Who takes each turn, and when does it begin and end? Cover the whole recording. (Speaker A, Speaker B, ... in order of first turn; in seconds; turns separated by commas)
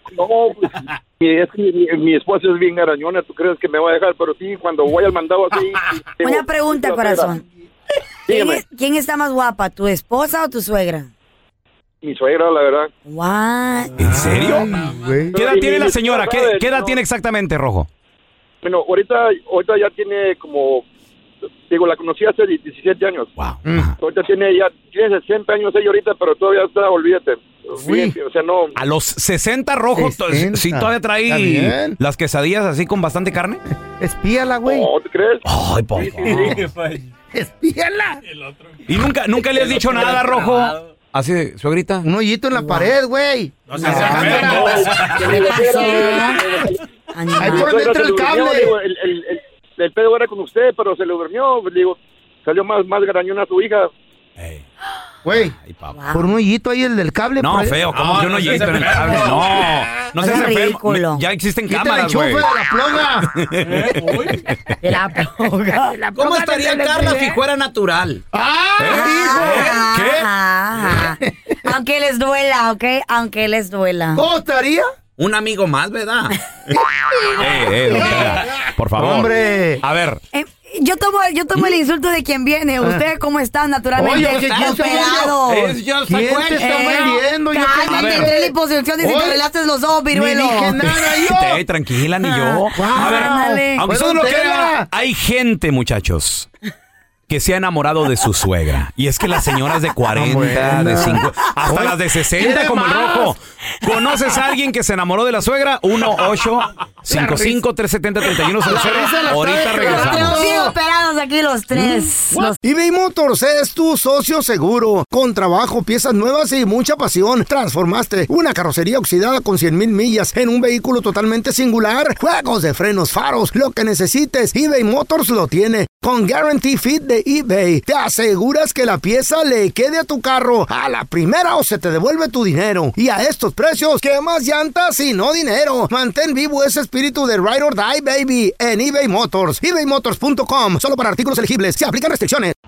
Speaker A: 0.1-7.4, Speaker B: 6.2-7.4, Speaker A: 8.3-8.6, Speaker B: 8.3-11.1, Speaker A: 12.0-12.9, Speaker B: 13.1-14.2, Speaker C: 14.0-14.7, Speaker D: 14.0-15.4, Speaker A: 15.3-17.0, Speaker C: 15.3-17.9, Speaker A: 18.6-20.9, Speaker A: 21.7-23.3, Speaker C: 23.4-23.9, Speaker D: 23.6-23.9, Speaker A: 24.0-28.8, Speaker D: 27.8-28.2, Speaker C: 28.8-33.6, Speaker D: 29.9-32.0, Speaker D: 34.0-34.9, Speaker A: 34.7-36.7, Speaker C: 35.5-37.0, Speaker D: 37.3-38.2, Speaker C: 38.9-42.0, Speaker D: 42.0-46.2, Speaker B: 42.6-42.9, Speaker C: 43.7-45.3, Speaker A: 43.8-46.8, Speaker B: 45.2-46.5, Speaker B: 47.1-47.7, Speaker D: 47.4-48.7, Speaker A: 47.5-53.9, Speaker C: 54.4-54.7, Speaker D: 55.2-55.5, Speaker C: 55.6-56.0, Speaker B: 55.9-56.2, Speaker D: 56.1-57.8, Speaker C: 57.4-62.5, Speaker D: 59.0-59.4, Speaker B: 60.2-61.2, Speaker D: 61.7-63.3, Speaker C: 63.3-64.8, Speaker B: 64.8-66.0, Speaker D: 66.0-67.3, Speaker C: 66.2-68.2, Speaker D: 68.3-70.0, Speaker C: 68.8-70.3, Speaker B: 68.9-74.2, Speaker D: 74.2-74.9, Speaker C: 75.2-76.4, Speaker D: 76.7-79.8, Speaker C: 77.4-80.2, Speaker B: 80.3-85.8, Speaker D: 84.0-85.3, Speaker C: 84.2-86.7, Speaker D: 86.1-89.4, Speaker B: 86.5-90.8, Speaker C: 87.9-88.3, Speaker D: 90.1-91.6, Speaker C: 90.8-96.5, Speaker B: 92.2-93.8, Speaker D: 92.8-94.9, Speaker C: 97.3-110.5, Speaker D: 100.2-103.3, Speaker D: 107.1-107.6, Speaker D: 108.7-110.8, Speaker B: 109.7-112.6, Speaker D: 112.6-142.6